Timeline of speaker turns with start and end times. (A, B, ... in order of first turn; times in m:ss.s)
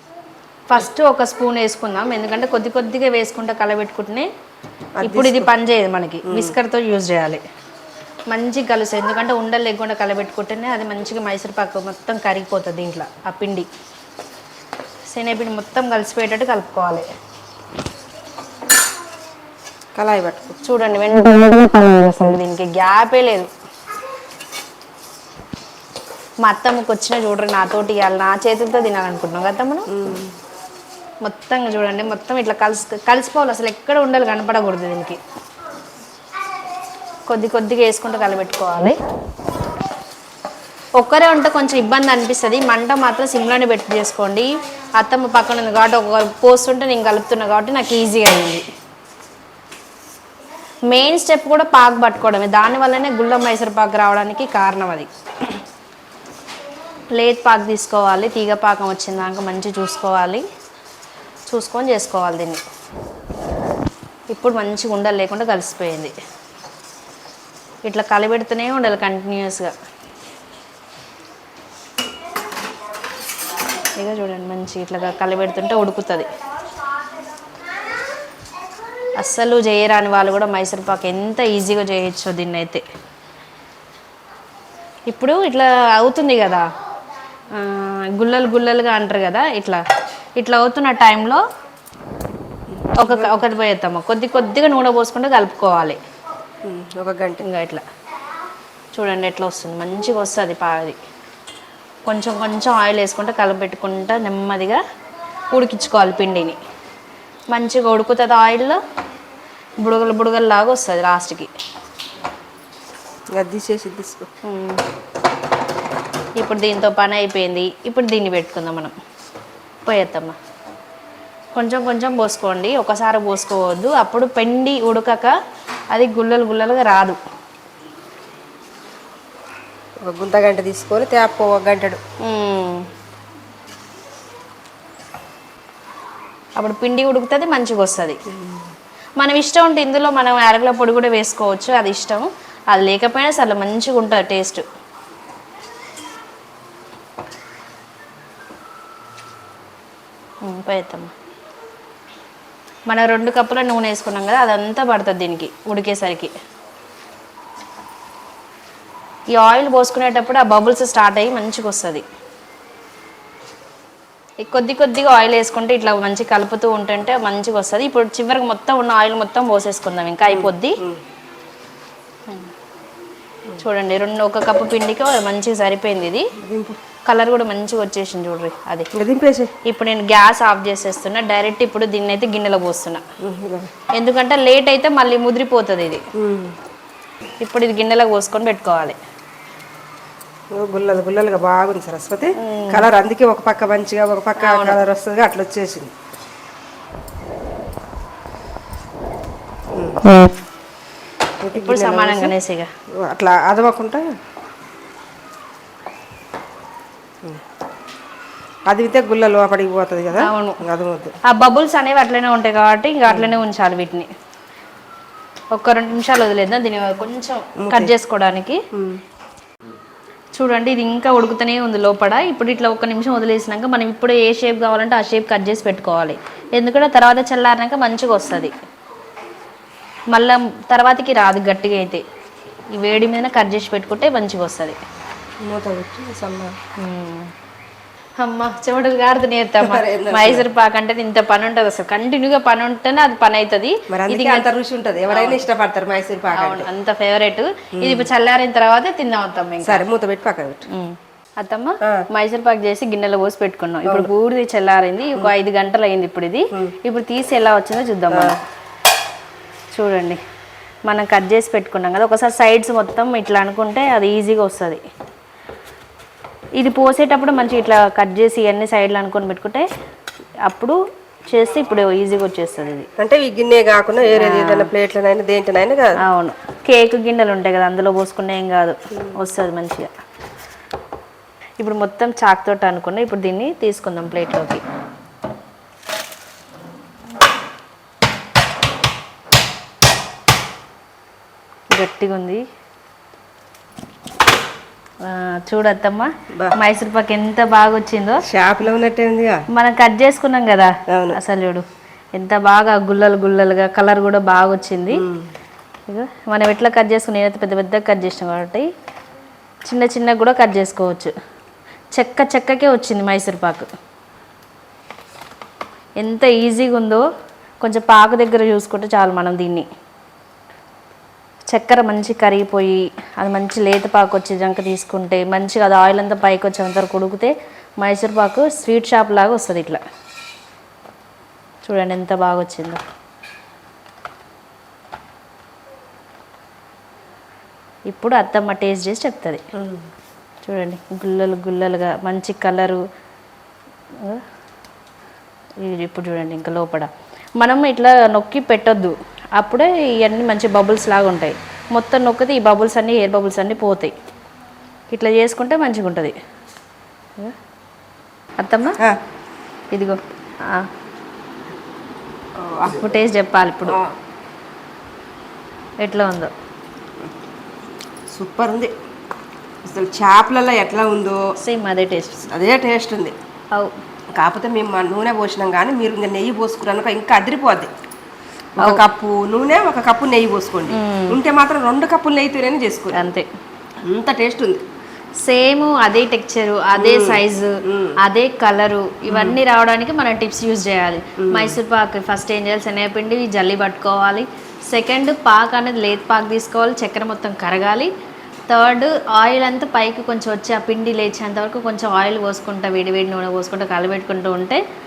0:00.7-0:04.3 A
0:05.0-0:05.5 B
0:05.0-0:07.4 A
0:06.2-0:06.6 B
0:08.3-0:13.7 A
0:15.1-0:17.1 A
0:20.0-0:20.6 B
0:20.6-0:23.5 A
0:26.4-0:29.9 A
0:29.9-0:30.3 B
0:31.2-0:35.2 A
0:37.3-0:39.0 A
0:41.0-0:48.6 A
0:50.9-0:55.6 A
0:57.1-1:00.4 A
1:01.5-1:02.6 A
1:04.3-1:06.1 A
1:07.8-1:09.7 A
1:14.0-1:16.3 A
1:19.2-1:22.8 A
1:25.1-1:26.7 A
1:27.5-1:29.8 A
1:30.4-1:31.4 A
1:32.8-1:33.4 B
1:33.0-1:36.0 A
1:36.6-1:37.4 B
1:37.4-1:37.8 A
1:38.9-1:41.0 A
1:42.0-1:44.8 A
1:45.5-1:46.6 A
1:47.5-1:48.8 A
1:49.8-1:51.5 A
1:53.3-1:54.3 B
1:54.4-1:54.8 A
1:56.4-1:58.9 A
1:59.8-2:00.4 A
2:01.5-2:05.3 A
2:05.9-2:07.2 A
2:10.0-2:12.0 B
2:12.2-2:12.9 A
2:16.6-2:18.2 A
2:19.2-2:24.6 A
2:30.4-2:31.1 A
2:32.9-2:36.3 A
2:39.3-2:42.0 A
2:44.4-2:50.8 A
2:50.3-2:51.0 B
2:53.6-2:56.3 A
2:56.4-2:56.8 B
2:57.0-2:58.9 A
2:58.9-2:59.5 B
2:59.6-3:03.0 A
3:03.2-3:03.7 B
3:03.9-3:06.0 A
3:06.2-3:06.6 B
3:07.4-3:09.0 A
3:10.5-3:15.9 B
3:12.4-3:12.9 A
3:14.4-3:14.8 A
3:19.7-3:20.0 B
3:21.4-3:22.3 B
3:21.5-3:22.7 A
3:23.0-3:24.0 B
3:28.7-3:31.2 B
3:30.1-3:30.6 A
3:31.2-3:34.1 A
3:35.5-3:38.6 A
3:37.6-3:37.9 B
3:38.7-3:39.0 B
3:40.3-3:48.5 A
3:50.1-3:52.0 A
3:52.7-3:54.8 A
3:55.4-3:56.6 B
3:56.8-3:57.3 A
3:58.2-4:04.5 A
3:59.6-4:00.5 B
4:03.9-4:06.7 B
4:05.1-4:05.4 A
4:06.3-4:09.8 A
4:07.7-4:08.1 B
4:09.6-4:10.6 B
4:10.7-4:18.4 A
4:13.8-4:14.1 B
4:19.7-4:20.2 A
4:20.9-4:24.8 A
4:26.6-4:29.6 A
4:30.4-4:32.9 A
4:33.0-4:36.0 B
4:34.1-4:34.7 A
4:36.0-4:39.9 A
4:41.6-4:44.6 A
4:51.7-4:52.4 A
4:55.0-4:58.2 A
4:58.2-4:59.4 B
4:59.5-5:05.0 A
5:00.9-5:01.2 B
5:04.9-5:05.3 B
5:05.9-5:08.7 A
5:09.6-5:11.1 A
5:11.9-5:13.7 A
5:16.0-5:17.0 A
5:17.6-5:19.6 A
5:21.5-5:29.8 A
5:31.6-5:32.8 A
5:37.9-5:39.4 A
5:39.5-5:39.8 B
5:40.4-5:42.8 A
5:44.0-5:44.2 A
5:45.6-5:53.9 A
5:54.9-5:56.1 A
5:58.4-5:58.8 A
5:59.7-6:00.7 A
6:02.4-6:03.0 B
6:02.6-6:03.8 A
6:03.7-6:03.9 B
6:05.8-6:06.3 A
6:08.1-6:08.7 B
6:09.6-6:11.2 B
6:11.4-6:12.2 A
6:12.3-6:13.1 B
6:14.2-6:17.7 B
6:18.6-6:23.0 B
6:20.7-6:21.2 A
6:22.9-6:23.2 A
6:23.8-6:24.6 B
6:25.2-6:37.9 A
6:26.8-6:28.0 B
6:29.1-6:29.4 B
6:31.2-6:31.6 B
6:38.5-6:44.6 A